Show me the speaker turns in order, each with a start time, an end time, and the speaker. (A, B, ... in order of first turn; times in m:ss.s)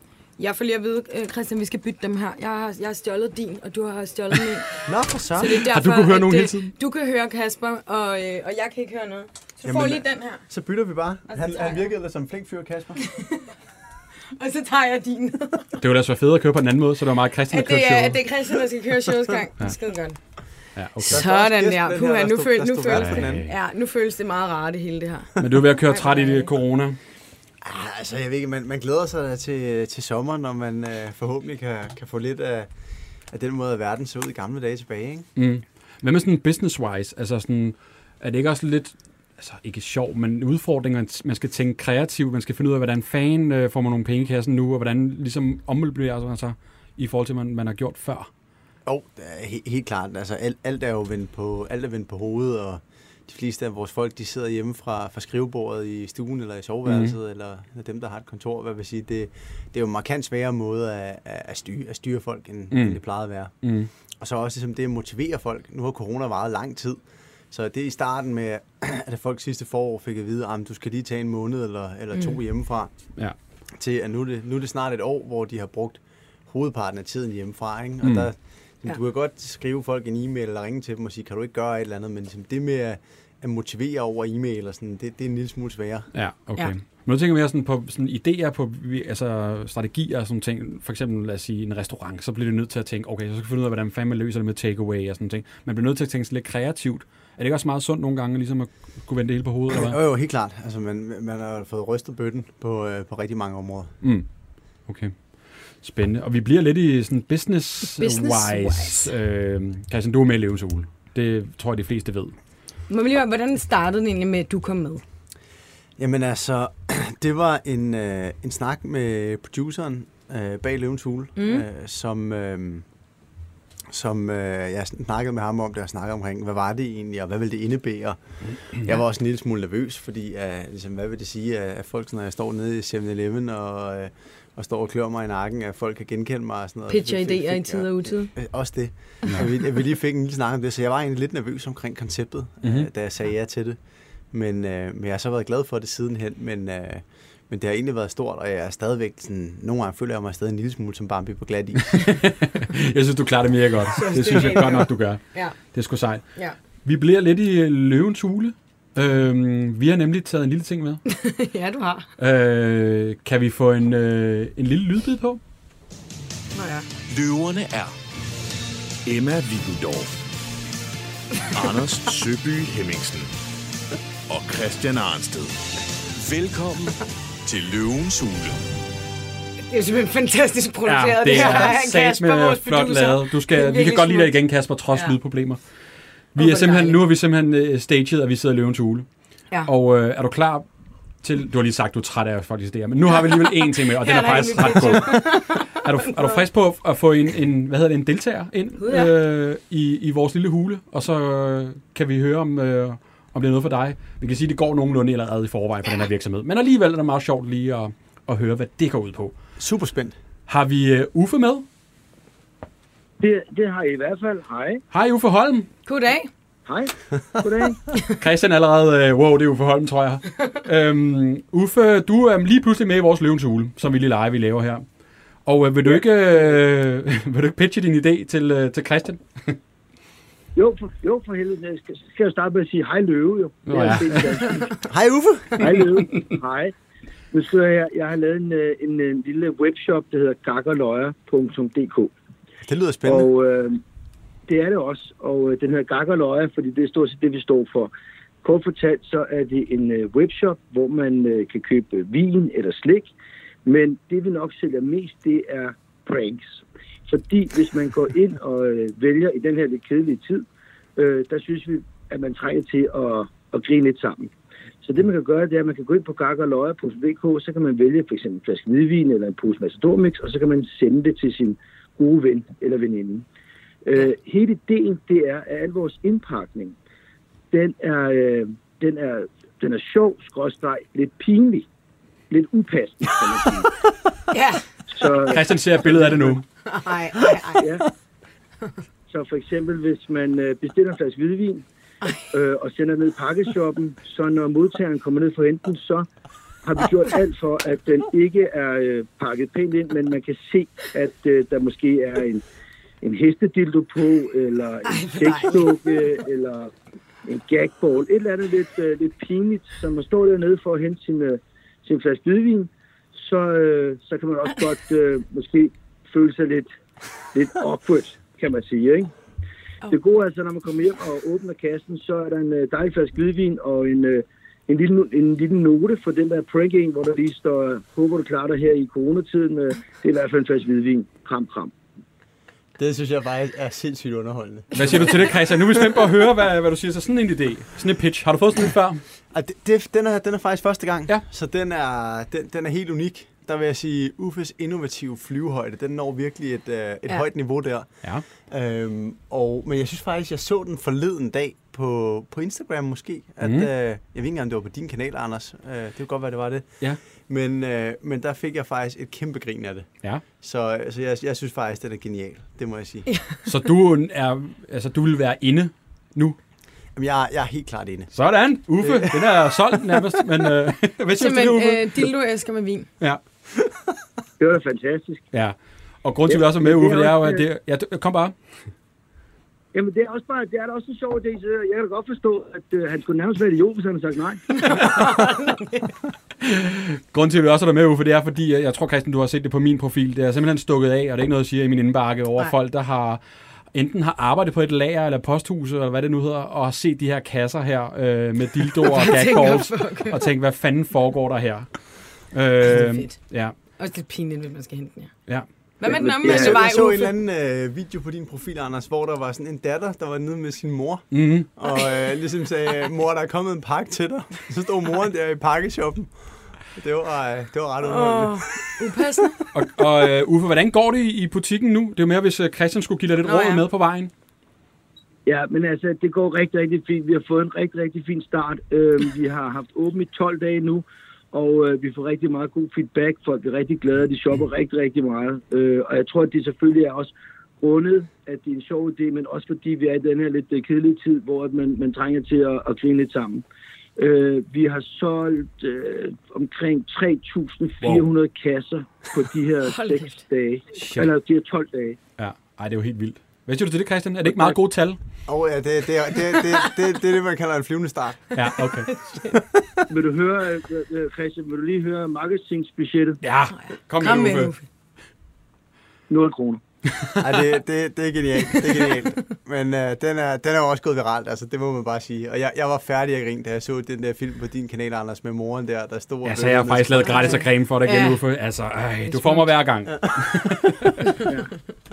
0:00.4-0:04.8 A
0:04.8-0:05.6 B
0:05.4-0:10.4 A
0:05.6-0:06.7 C
0:09.6-0:13.0 B
0:11.3-0:11.9 A
0:13.0-0:13.4 A
0:14.4-0:15.7 A
0:15.8-0:18.2 C
0:17.5-0:20.2 A
0:20.7-0:21.2 C
0:21.0-0:23.5 B
0:21.0-0:25.3 A
0:22.9-0:23.5 C
0:25.4-0:27.0 C
0:25.8-0:26.5 A
0:27.6-0:32.7 B
0:33.3-0:35.3 B
0:35.4-0:48.3 C
0:48.8-1:12.9 B
0:56.8-0:57.2 C
1:02.7-1:03.0 C
1:03.6-1:03.9 C
1:12.1-1:12.4 A
1:13.8-1:26.1 B
1:18.0-1:18.3 C
1:26.1-1:40.0 C
1:39.7-1:43.9 B
1:44.9-1:45.1 C
1:45.8-1:52.3 C
1:47.9-1:49.1 A
1:52.9-1:55.0 A
1:56.0-2:02.8 B
2:01.4-2:01.7 A
2:03.9-2:23.8 B
2:16.9-2:18.3 A
2:22.6-2:22.9 C
2:24.3-2:32.0 B
2:31.9-2:36.3 C
2:33.9-2:35.6 A
2:36.8-2:41.0 C
2:41.1-2:42.0 A
2:42.2-2:45.4 C
2:46.5-2:46.9 A
2:47.1-2:47.9 D
2:49.0-2:50.2 D
2:51.4-2:53.3 D
2:54.3-2:55.6 D
2:56.2-2:58.6 D
2:59.7-3:04.4 A
3:00.8-3:05.6 C
3:06.3-3:09.1 C
3:06.4-3:07.0 A
3:09.7-3:10.7 C
3:11.2-3:29.4 C
3:13.1-3:16.4 A
3:18.8-3:19.1 A
3:29.6-3:30.2 B
3:30.5-3:31.7 C
3:33.2-3:34.8 E
3:34.9-3:35.7 C
3:35.8-3:36.3 A
3:36.7-3:37.8 E
3:38.2-3:44.8 C
3:45.5-3:49.6 C
3:45.9-3:46.5 E
3:50.6-3:54.8 E
3:53.7-3:54.4 C
3:54.4-3:54.7 A
3:54.9-3:55.7 B
3:55.6-3:56.7 E
3:57.3-4:02.1 E
4:02.7-4:03.3 B
4:03.0-4:03.8 E
4:04.5-4:07.9 E
4:08.4-4:13.1 E
4:13.6-4:24.3 E
4:24.8-4:33.2 E
4:33.8-4:36.8 E
4:37.5-4:41.6 E
4:42.3-4:43.7 E
4:44.3-4:44.6 A
4:44.9-4:46.4 E
4:45.3-4:46.4 C
4:46.6-4:47.6 A
4:47.6-4:47.9 E
4:49.1-4:51.6 E
4:52.0-4:52.3 A
4:52.3-4:56.1 E
4:56.6-5:02.4 E
5:03.0-5:06.7 E
5:04.9-5:05.7 A
5:07.2-5:16.7 E
5:17.3-5:19.1 E
5:19.9-5:31.7 E
5:32.8-5:35.3 B
5:34.7-5:39.0 C
5:39.3-6:03.1 B
5:53.4-5:53.7 C
6:03.1-6:03.4 A
6:03.4-6:06.4 C
6:07.0-6:08.1 B
6:08.1-6:12.1 C
6:08.8-6:10.0 B
6:11.2-6:12.9 A
6:14.4-6:15.2 E
6:15.3-6:18.3 C
6:16.3-6:17.4 E
6:19.7-6:24.9 E
6:24.5-6:26.0 A
6:26.4-6:33.2 C
6:33.7-6:41.7 C
6:38.8-6:40.3 A
6:42.3-6:43.5 C
6:42.7-6:43.2 A
6:43.8-6:45.1 A
6:45.8-6:47.1 A
6:45.9-6:46.6 E
6:46.0-6:58.6 B
6:51.1-6:51.5 C
6:57.8-6:59.4 A
6:59.5-7:04.1 C
7:03.2-7:03.6 A
7:05.2-7:23.4 E
7:24.0-7:32.0 E
7:29.7-7:30.2 A
7:30.8-7:31.1 C
7:32.2-7:35.0 C
7:35.3-7:38.3 B
7:38.3-7:38.9 C
7:38.8-7:39.4 A
7:39.3-7:39.8 B
7:39.9-7:43.2 E
7:43.2-7:44.5 C
7:43.5-7:44.6 A
7:46.1-7:46.6 E
7:47.2-7:57.4 B
7:48.5-7:48.9 A
7:56.2-8:01.0 C
7:57.0-7:58.2 A
7:59.0-7:59.5 A
8:01.2-8:01.5 E